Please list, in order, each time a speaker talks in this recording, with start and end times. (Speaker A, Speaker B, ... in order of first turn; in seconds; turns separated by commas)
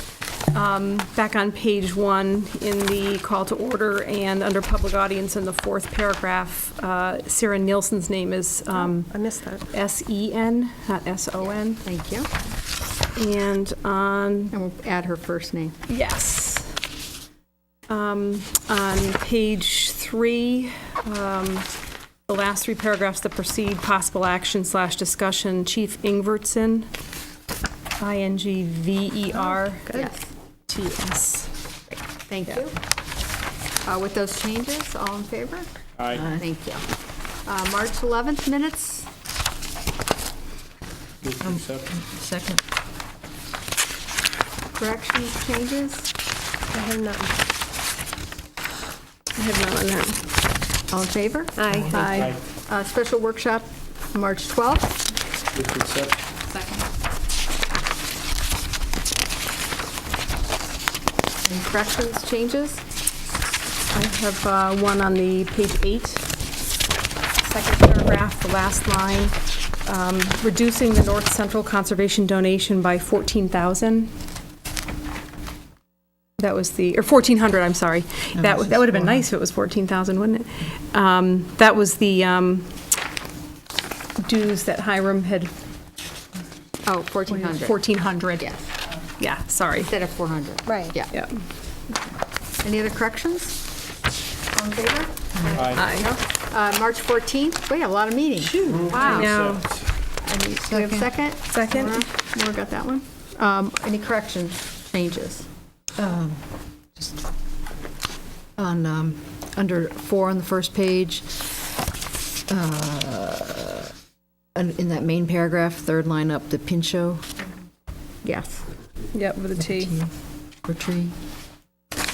Speaker A: 0.5-9.1, Speaker B: 8.7-9.7, Speaker A: 9.7-11.8, Speaker C: 11.4-12.3, Speaker A: 13.1-14.6, Speaker C: 14.5-15.8, Speaker A: 15.9-16.8, Speaker A: 17.9-21.7, Speaker A: 22.3-26.9, Speaker A: 28.0-29.9, Speaker B: 29.4-30.1, Speaker C: 29.9-30.3, Speaker A: 30.7-31.5, Speaker C: 32.3-32.7, Speaker C: 33.8-35.8, Speaker D: 36.0-36.3, Speaker E: 36.2-36.4, Speaker C: 36.3-36.9, Speaker C: 37.4-39.1, Speaker D: 41.2-41.9, Speaker E: 41.4-42.6, Speaker C: 44.7-46.1, Speaker B: 46.7-47.3, Speaker A: 49.3-50.2, Speaker C: 50.9-51.6, Speaker B: 51.6-52.3, Speaker E: 51.8-52.1, Speaker A: 51.9-52.3, Speaker D: 52.1-52.4, Speaker C: 52.6-55.1, Speaker D: 55.5-56.2, Speaker C: 56.5-56.8, Speaker C: 61.4-62.8, Speaker A: 63.9-66.3, Speaker A: 67.4-74.1, Speaker A: 76.4-82.7, Speaker E: 78.4-79.2, Speaker A: 84.2-85.5, Speaker C: 86.8-87.8, Speaker A: 87.3-88.5, Speaker C: 88.4-88.7, Speaker A: 89.2-89.9, Speaker C: 89.8-91.1, Speaker B: 90.7-90.9, Speaker A: 91.1-91.4, Speaker C: 92.6-93.7, Speaker C: 94.5-99.3, Speaker E: 95.4-95.7, Speaker D: 95.5-95.8, Speaker A: 95.7-96.1, Speaker E: 98.4-99.2, Speaker D: 98.7-99.9, Speaker A: 99.0-99.7, Speaker C: 100.2-105.5, Speaker E: 100.6-101.1, Speaker A: 101.4-102.0, Speaker E: 106.0-107.2, Speaker E: 108.6-110.9, Speaker C: 109.8-111.3, Speaker C: 112.5-113.7, Speaker E: 112.5-113.6, Speaker E: 114.6-117.2, Speaker C: 114.6-115.9, Speaker C: 116.5-117.2, Speaker C: 118.2-118.7, Speaker A: 119.1-120.0, Speaker C: 119.7-120.1, Speaker C: 120.6-121.1